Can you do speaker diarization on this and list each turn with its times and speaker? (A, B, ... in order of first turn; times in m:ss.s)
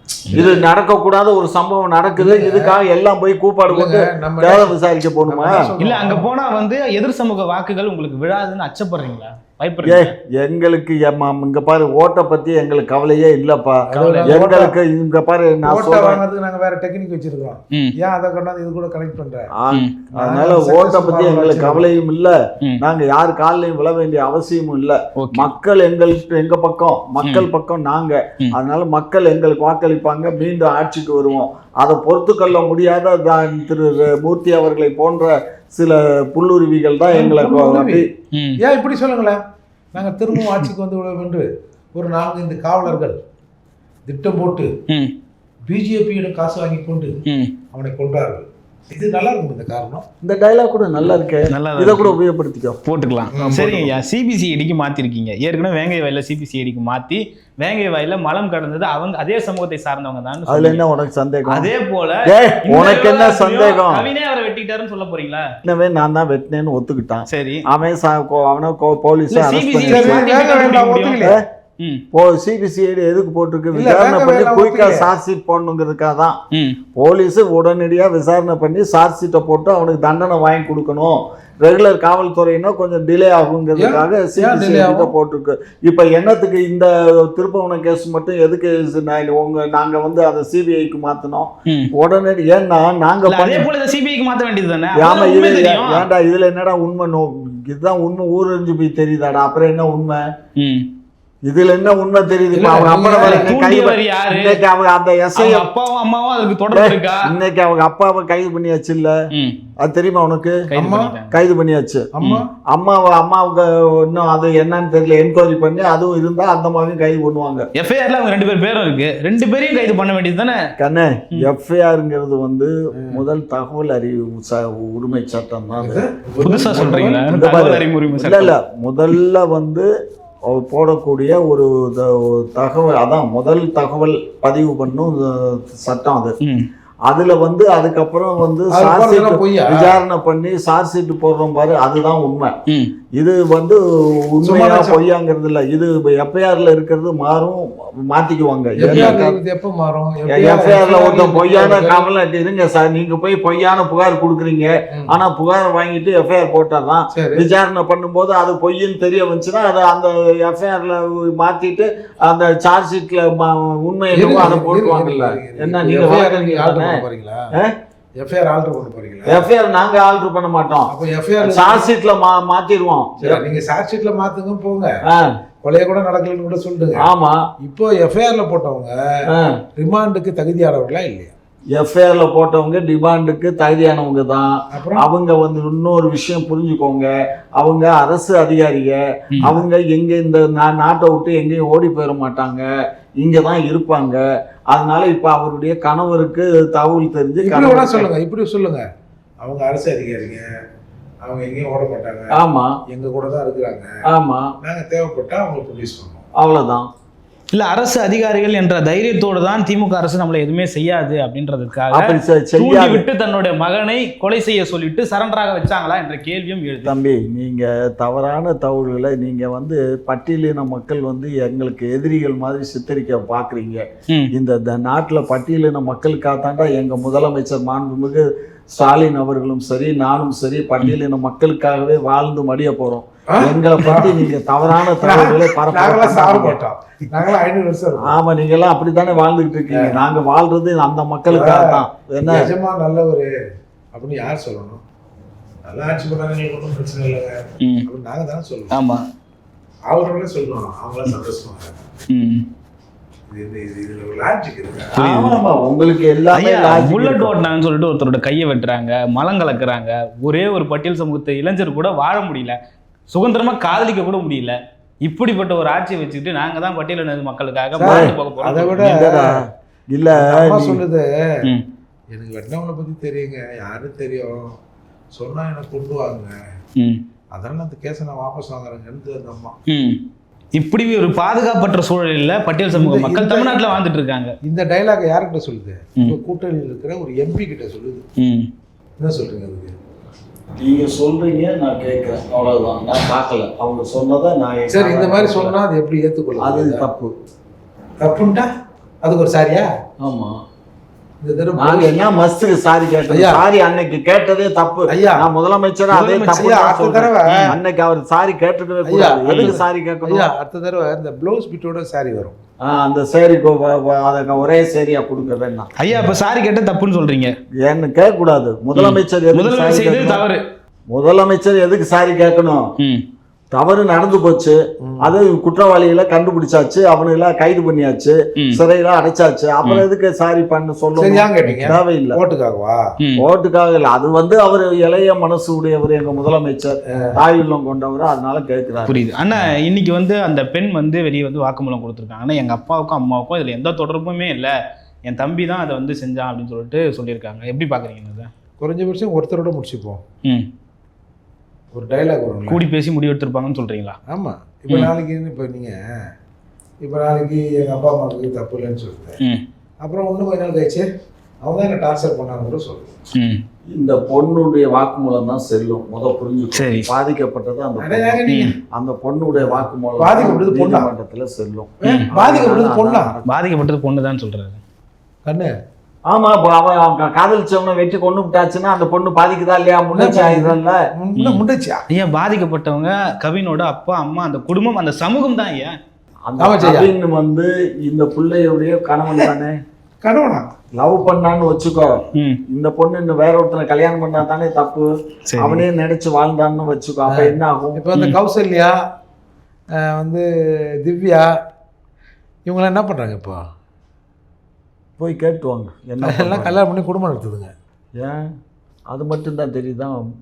0:00.3-0:00.6 A
0:00.3-0:05.7 B
0:02.2-0:02.7 A
0:03.7-0:06.3 A
0:05.8-0:10.1 C
0:09.8-0:16.2 B
0:13.9-0:14.7 A
0:13.9-0:14.4 C
0:15.6-0:19.5 A
0:19.5-0:38.1 B
0:20.1-0:21.8 A
0:25.2-0:25.5 C
0:27.2-0:27.5 C
0:37.1-0:38.1 A
0:38.3-0:38.6 C
0:38.6-0:39.4 A
0:39.9-0:43.2 A
0:44.1-0:44.7 A
0:45.6-0:47.2 A
0:47.2-0:47.5 C
0:47.7-0:50.0 A
0:50.2-0:52.8 B
0:51.5-0:52.2 C
0:52.8-1:00.8 C
0:53.3-0:53.9 A
1:00.5-1:01.7 B
1:01.5-1:05.4 C
1:02.2-1:04.1 B
1:05.6-1:10.2 B
1:07.3-1:07.6 C
1:09.3-1:11.3 C
1:09.8-1:11.4 A
1:12.1-1:16.4 B
1:13.7-1:15.1 A
1:17.0-1:33.7 B
1:23.8-1:25.1 A
1:33.2-1:36.1 C
1:35.0-1:40.2 B
1:40.6-1:40.9 C
1:41.5-1:45.7 B
1:42.5-1:43.5 A
1:43.2-1:44.6 C
1:45.4-1:47.3 C
1:46.7-1:49.1 B
1:49.3-1:49.6 C
1:49.8-1:50.6 B
1:50.7-1:51.3 C
1:50.7-1:51.2 A
1:51.3-1:52.1 B
1:52.1-1:52.5 A
1:52.7-1:57.6 B
1:57.8-2:00.6 C
2:00.8-2:06.0 B
2:05.8-2:07.2 A
2:06.4-2:08.5 C
2:07.2-2:09.9 B
2:10.5-2:16.3 B
2:17.1-2:22.5 B
2:18.7-2:20.0 A
2:23.2-2:29.4 B
2:24.4-2:25.0 A
2:28.8-2:32.0 A
2:30.3-2:47.7 B
2:37.1-2:37.4 A
2:44.1-2:47.5 A
2:48.2-2:49.5 A
2:49.2-2:53.4 B
2:50.9-2:51.9 A
2:53.2-2:54.9 A
2:55.6-2:57.1 A
2:57.0-2:57.4 B
2:57.6-2:58.9 A
2:59.3-2:59.6 B
2:59.8-3:01.3 A
3:01.7-3:12.6 B
3:04.7-3:05.0 A
3:13.2-3:18.1 B
3:17.4-3:18.8 A
3:19.4-3:20.4 A
3:21.2-3:23.9 A
3:22.3-3:22.7 B
3:24.1-3:24.5 B
3:24.6-3:26.2 A
3:26.4-3:26.9 B
3:27.5-3:36.9 C
3:31.9-3:33.0 B
3:36.8-3:56.6 B
3:53.3-3:54.1 A
3:54.9-3:58.1 A
3:58.0-4:02.5 B
3:59.7-4:00.0 A
4:01.3-4:03.3 A
4:03.9-4:04.8 A
4:05.6-4:08.7 A
4:08.7-4:09.0 C
4:09.9-4:11.8 A
4:12.1-4:12.4 C
4:13.3-4:14.9 A
4:14.9-4:17.3 B
4:15.0-4:15.4 C
4:16.3-4:22.6 C
4:23.1-4:28.9 C
4:27.8-4:29.3 A
4:27.8-4:28.1 B
4:28.8-4:30.8 B
4:30.1-4:31.1 A
4:32.1-4:34.6 A
4:35.1-4:36.3 A
4:36.8-4:37.0 C
4:37.3-4:39.5 A
4:39.7-4:40.0 C
4:40.6-4:44.3 C
4:42.7-4:43.6 A
4:44.4-4:48.0 A
4:48.2-4:48.5 C
4:49.0-4:49.7 A
4:50.6-4:55.5 B
4:54.7-4:56.9 A
4:56.4-4:57.1 B
4:58.0-4:58.5 A
4:59.0-4:59.7 A
5:00.0-5:00.3 B
5:01.2-5:02.0 A
5:01.6-5:10.3 B
5:03.1-5:03.4 A
5:04.9-5:05.3 A
5:05.9-5:07.5 C
5:06.3-5:07.5 A
5:08.8-5:12.4 A
5:12.6-5:15.7 B
5:15.8-5:17.3 C
5:17.6-5:20.2 B
5:18.7-5:20.4 C
5:20.9-5:22.6 B
5:23.5-5:32.2 B
5:31.0-5:32.8 A
5:33.2-5:39.0 B
5:38.9-5:44.5 C
5:45.1-5:48.3 C
5:48.6-5:50.0 A
5:51.7-5:52.6 A
5:52.5-5:54.0 C
5:54.1-5:55.8 A
5:56.8-5:59.2 A
5:59.8-6:00.9 A
6:01.4-6:02.9 A
6:03.1-6:03.4 C
6:03.7-6:13.3 B
6:06.5-6:06.9 C
6:07.8-6:08.5 A
6:08.3-6:08.5 C
6:09.4-6:10.9 A
6:11.8-6:13.1 A
6:13.2-6:14.6 C
6:15.2-6:15.5 A
6:16.1-6:20.8 B
6:19.9-6:21.8 A
6:21.2-6:25.8 C
6:26.2-6:29.6 B
6:26.4-6:26.9 A
6:30.0-6:30.5 A
6:30.8-6:31.9 B
6:32.1-6:32.4 C
6:32.5-6:37.8 B
6:35.3-6:35.6 C
6:37.1-6:38.7 A
6:39.9-6:40.2 A
6:40.8-6:41.3 A
6:42.4-6:43.4 A
6:45.0-6:46.6 B
6:46.0-6:47.5 A
6:48.0-6:48.2 B
6:48.9-6:50.0 B